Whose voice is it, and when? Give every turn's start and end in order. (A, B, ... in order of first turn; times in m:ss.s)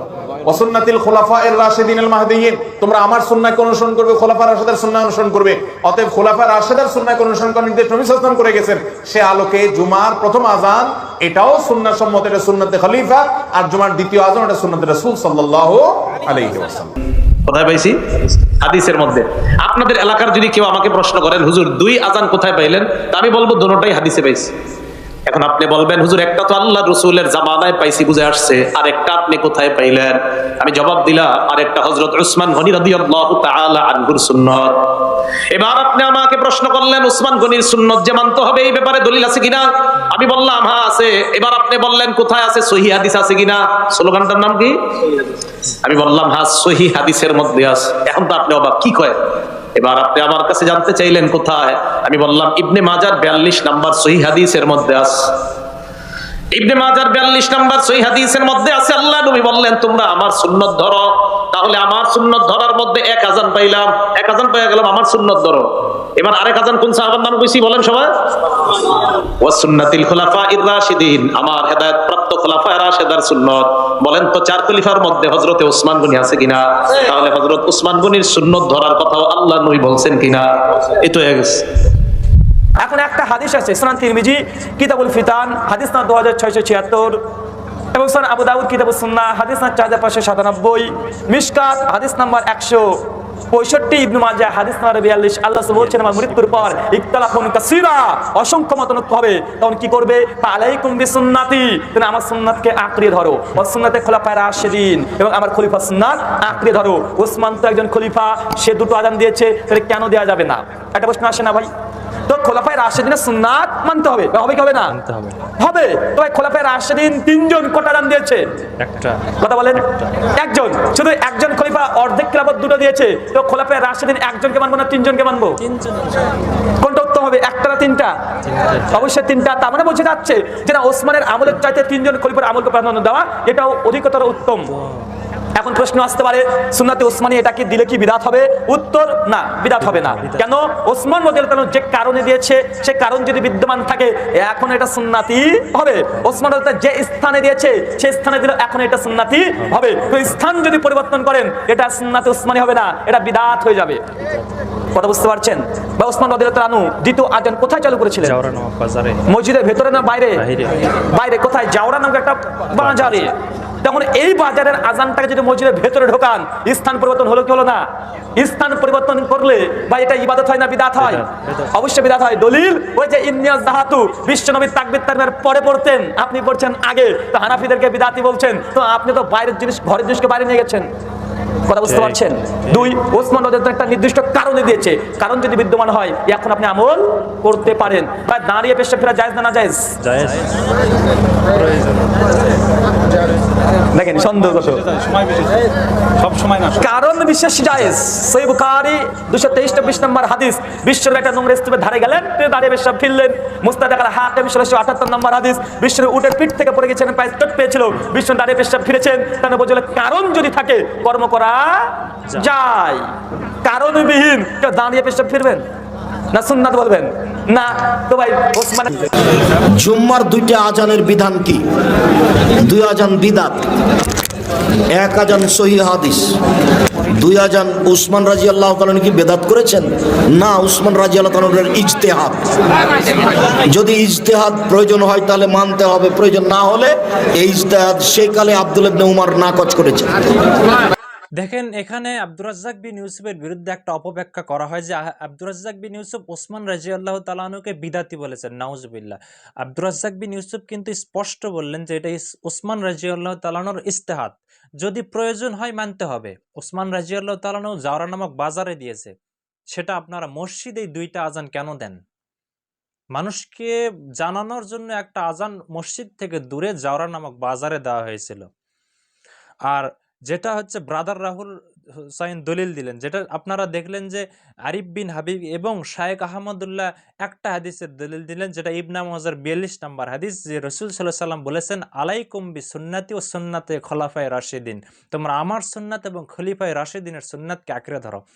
0:00.4-0:17.0 A
0:17.5-0:18.0 B
0:18.7-0:24.4 B
0:25.3-0:30.1 B
0:30.7-0:34.6 B
0:35.6-0:39.6 B
0:40.4-0:44.7 B
0:45.9-0:49.1 B
0:49.8-0:55.1 B
0:56.6-1:01.0 B
1:01.6-1:05.6 B
1:06.2-1:08.0 B
1:09.4-1:16.6 B
1:17.2-1:20.4 B
1:21.1-1:21.5 B
1:22.8-1:27.2 C
1:27.9-1:32.9 C
1:33.5-1:51.7 C
1:35.7-1:36.7 D
1:52.3-1:54.9 C
1:55.0-1:55.4 D
1:55.6-1:58.4 C
1:58.8-1:59.2 D
1:59.4-2:05.6 C
2:05.6-2:06.2 D
2:06.8-2:08.1 C
2:08.5-2:09.0 D
2:08.9-2:14.7 C
2:14.7-2:15.1 D
2:15.6-2:34.0 C
2:19.8-2:20.4 D
2:34.9-2:38.4 C
2:38.2-2:39.2 D
2:39.3-2:40.4 C
2:40.4-2:40.8 D
2:41.1-2:47.8 C
2:42.8-2:43.3 D
2:48.4-3:00.9 C
2:51.0-2:51.7 D
3:01.7-3:09.9 C
3:01.8-3:02.9 D
3:10.0-3:10.6 D
3:11.5-3:12.2 D
3:13.9-3:14.9 C
3:16.7-3:33.1 C
3:33.6-3:35.6 C
3:36.3-3:39.0 C
3:39.8-3:41.6 E
3:42.6-3:43.6 E
3:45.0-3:46.3 E
3:47.2-3:52.5 E
3:53.8-4:00.1 E
4:01.4-4:19.1 D
4:19.7-4:22.0 D
4:23.2-4:28.5 D
4:29.7-4:48.2 D